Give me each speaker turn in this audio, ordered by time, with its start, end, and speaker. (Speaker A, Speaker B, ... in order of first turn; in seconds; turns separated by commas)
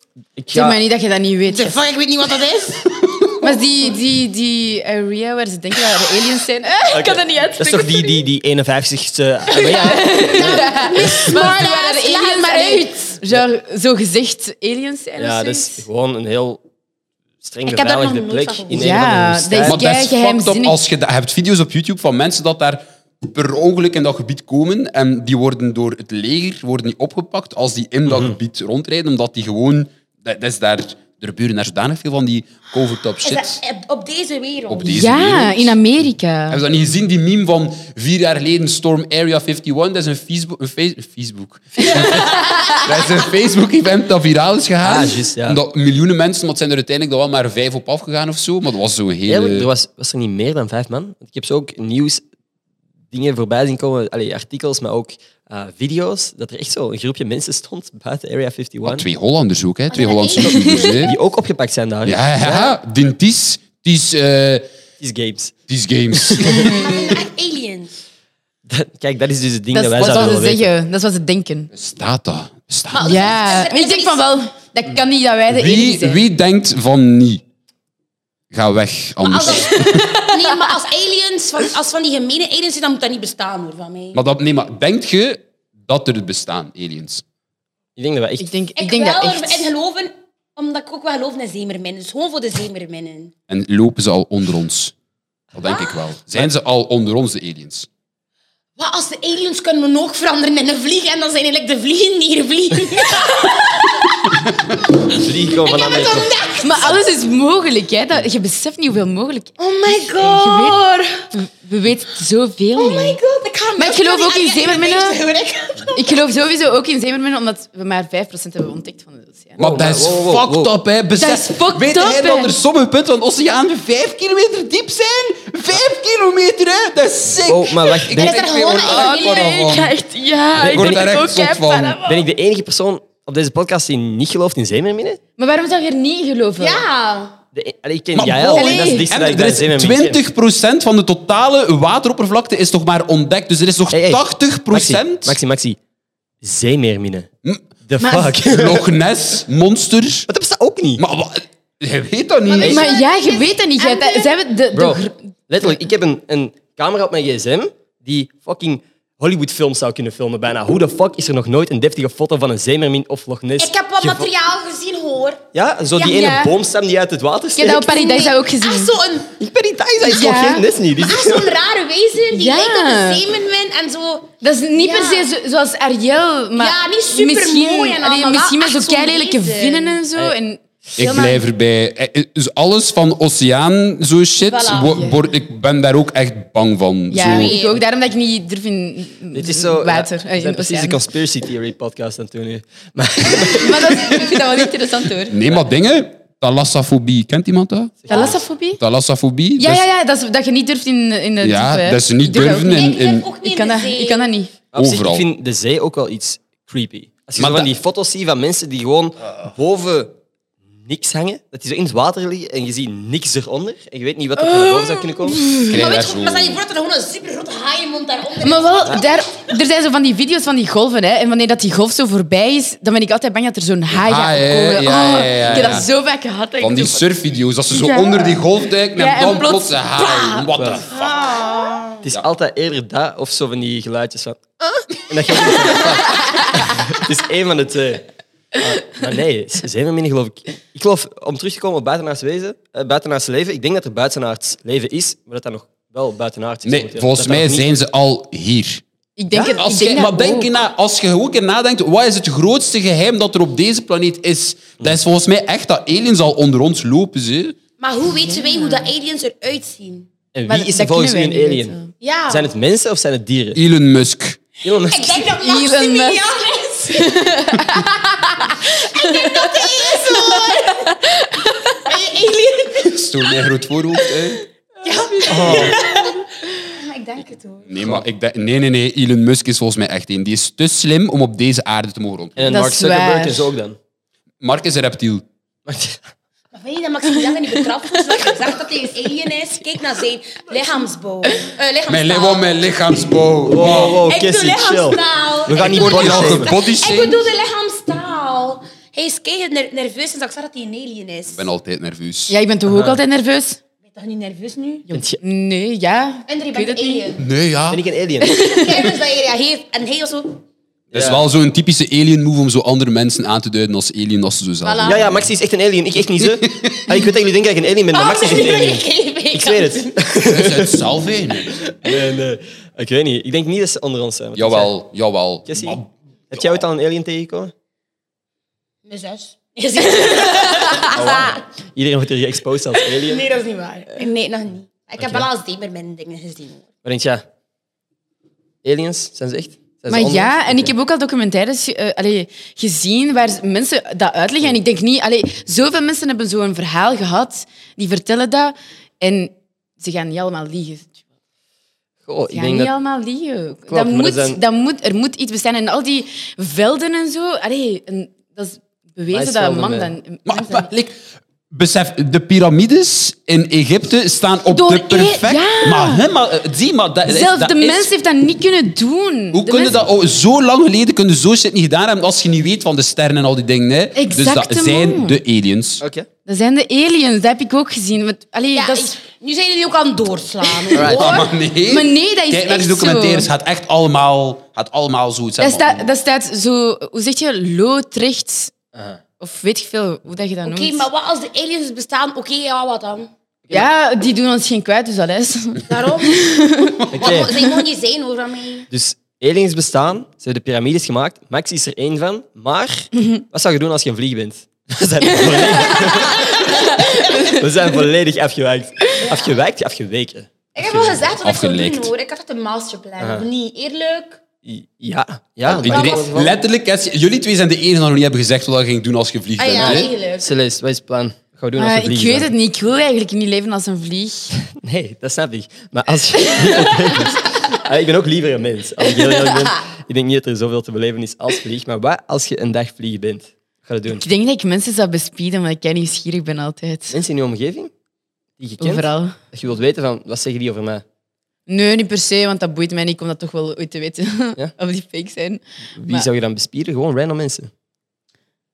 Speaker A: 0.4-0.8, Speaker B: 0.5-1.7, Speaker C: 1.5-3.0, Speaker D: 3.1-3.5, Speaker B: 3.4-8.2, Speaker A: 6.9-11.4, Speaker C: 9.5-13.1, Speaker B: 9.7-15.8, Speaker A: 15.2-16.6, Speaker A: 17.4-19.8, Speaker C: 17.6-19.1, Speaker B: 18.7-20.8, Speaker D: 19.6-33.6, Speaker A: 28.1-28.4, Speaker C: 33.2-35.0, Speaker D: 34.7-35.8, Speaker B: 34.9-36.6, Speaker D: 36.5-49.7, Speaker B: 41.8-42.8, Speaker A: 44.8-45.6, Speaker A: 49.3-52.2, Speaker A: 53.1-59.1, Speaker D: 58.8-61.1, Speaker C: 59.9-61.1, Speaker A: 61.0-62.7, Speaker D: 62.0-64.7, Speaker A: 65.0-65.5, Speaker D: 65.7-66.9, Speaker A: 66.1-66.6, Speaker B: 66.6-67.0, Speaker C: 66.7-68.0, Speaker A: 68.7-70.7, Speaker B: 69.7-71.7, Speaker D: 70.0-70.3, Speaker D: 71.7-73.1, Speaker B: 72.9-76.2, Speaker C: 73.0-74.3, Speaker D: 75.5-77.4, Speaker D: 78.5-80.0, Speaker C: 79.2-84.2, Speaker B: 79.6-80.5, Speaker D: 84.1-87.2, Speaker A: 88.0-88.5, Speaker B: 88.4-89.7, Speaker C: 88.8-93.3, Speaker D: 93.5-94.9, Speaker D: 95.5-97.9, Speaker C: 95.7-95.9, Speaker C: 98.8-104.3, Speaker A: 105.0-106.9, Speaker C: 105.5-107.0, Speaker B: 106.6-113.2, Speaker C: 109.6-111.3, Speaker C: 112.7-116.3, Speaker B: 113.8-115.2, Speaker B: 115.9-119.6, Speaker D: 119.6-130.0, Speaker A: 119.6-120.7, Speaker B: 121.2-122.5, Speaker A: 127.4-128.4, Speaker C: 128.1-129.6, Speaker B: 128.7-132.1, Speaker D: 130.5-132.1, Speaker A: 130.6-131.1, Speaker A: 132.0-135.2, Speaker B: 135.4-136.8, Speaker C: 136.6-137.3, Speaker A: 137.5-140.2, Speaker D: 138.1-145.4, Speaker B: 138.5-139.1, Speaker A: 143.9-145.8, Speaker A: 146.4-147.3, Speaker D: 147.4-150.3, Speaker A: 147.8-148.9, Speaker B: 148.0-148.3, Speaker A: 150.3-151.0, Speaker D: 151.0-152.9, Speaker C: 152.5-154.4, Speaker B: 152.5-155.3, Speaker A: 154.7-164.3, Speaker C: 163.6-165.4, Speaker A: 165.5-167.8, Speaker C: 166.0-166.3, Speaker B: 166.2-166.5, Speaker B: 167.5-168.9, Speaker C: 167.7-169.3, Speaker A: 169.4-171.5, Speaker B: 170.0-170.7, Speaker C: 170.9-175.3, Speaker B: 172.3-173.2, Speaker B: 174.4-180.6, Speaker C: 176.6-180.0, Speaker D: 181.0-187.6, Speaker C: 181.0-181.4, Speaker C: 184.4-185.0, Speaker B: 184.9-185.3, Speaker B: 187.1-191.0, Speaker C: 187.2-187.8, Speaker A: 189.3-194.4, Speaker B: 193.4-195.4, Speaker D: 195.3-199.8, Speaker A: 198.0-198.4, Speaker B: 198.1-198.8, Speaker B: 199.6-202.8, Speaker D: 201.4-203.3, Speaker C: 202.4-204.3, Speaker B: 203.4-204.5, Speaker A: 204.7-210.2, Speaker D: 204.8-205.3, Speaker D: 207.3-207.7, Speaker A: 210.8-215.5, Speaker B: 214.4-215.8, Speaker D: 215.6-216.6, Speaker C: 215.6-219.2, Speaker B: 218.4-227.0, Speaker D: 223.9-225.8, Speaker A: 225.5-225.8, Speaker D: 226.6-231.4, Speaker B: 227.7-228.4, Speaker B: 228.9-230.5, Speaker A: 230.5-230.9, Speaker C: 231.0-231.9, Speaker A: 232.0-247.7, Speaker D: 246.6-248.8, Speaker B: 249.2-250.5, Speaker A: 249.3-249.6, Speaker D: 249.6-257.6, Speaker C: 257.8-260.1, Speaker B: 258.3-258.9, Speaker A: 260.3-263.6, Speaker B: 260.4-261.9, Speaker C: 262.0-262.5, Speaker D: 263.5-264.4, Speaker A: 264.6-265.3, Speaker C: 264.7-267.3, Speaker B: 265.4-266.2, Speaker B: 266.9-270.1, Speaker C: 268.6-270.9, Speaker B: 270.8-271.6, Speaker C: 271.8-273.4, Speaker D: 272.8-274.4, Speaker C: 274.8-277.7, Speaker B: 274.9-275.5, Speaker A: 275.2-275.7, Speaker D: 275.4-275.8, Speaker D: 277.7-282.5, Speaker A: 282.4-283.8, Speaker B: 282.4-283.5, Speaker D: 284.4-285.2, Speaker A: 285.6-286.1, Speaker C: 286.5-292.5, Speaker D: 291.9-294.0, Speaker A: 293.5-296.5, Speaker C: 293.9-301.5, Speaker D: 295.5-297.2, Speaker D: 301.3-302.3, Speaker B: 302.3-303.6, Speaker A: 302.7-303.0, Speaker C: 303.9-304.9, Speaker B: 304.9-307.1, Speaker A: 304.9-305.2, Speaker C: 306.3-307.2, Speaker D: 307.2-307.8, Speaker A: 307.7-308.3, Speaker B: 308.2-308.8, Speaker C: 308.3-310.4, Speaker A: 310.9-311.2, Speaker D: 310.9-315.2, Speaker C: 314.6-315.1, Speaker A: 314.8-320.8, Speaker D: 316.3-317.0, Speaker C: 317.9-319.9, Speaker D: 320.2-321.7, Speaker A: 321.5-324.8, Speaker D: 324.4-326.6, Speaker A: 325.4-325.8, Speaker A: 326.3-327.5, Speaker C: 328.9-331.4, Speaker A: 330.9-333.2, Speaker C: 332.9-336.6, Speaker A: 335.0-335.3, Speaker A: 336.8-337.2, Speaker A: 338.6-340.7, Speaker B: 339.9-351.0, Speaker A: 352.0-352.7, Speaker B: 352.3-360.7, Speaker A: 353.7-354.4, Speaker A: 359.1-359.9, Speaker D: 360.2-360.9, Speaker D: 361.5-367.9, Speaker B: 364.5-366.0, Speaker B: 367.1-369.8, Speaker D: 369.3-375.8, Speaker B: 373.9-375.2, Speaker A: 375.8-376.1, Speaker B: 376.2-378.9, Speaker C: 378.5-381.1, Speaker D: 380.7-385.9, Speaker A: 380.7-381.0, Speaker B: 380.8-383.3, Speaker B: 385.4-388.5, Speaker A: 388.7-389.0, Speaker B: 389.2-390.9, Speaker C: 390.4-393.1, Speaker B: 393.5-397.4, Speaker C: 395.6-396.2, Speaker A: 396.9-397.3, Speaker C: 396.9-398.7, Speaker A: 398.7-410.3, Speaker B: 405.3-405.6, Speaker B: 406.8-407.3, Speaker C: 409.0-409.4, Speaker C: 410.5-414.2, Speaker D: 410.6-411.9, Speaker A: 413.0-413.3, Speaker A: 414.4-416.3, Speaker D: 415.4-419.9, Speaker C: 415.6-416.2, Speaker C: 419.4-420.3, Speaker A: 419.6-422.3, Speaker B: 421.6-424.3, Speaker A: 424.3-434.0, Speaker B: 426.4-426.9, Speaker B: 433.9-437.0, Speaker A: 436.9-437.7, Speaker A: 438.4-440.8, Speaker B: 438.6-439.2, Speaker B: 441.5-446.1, Speaker A: 445.8-447.5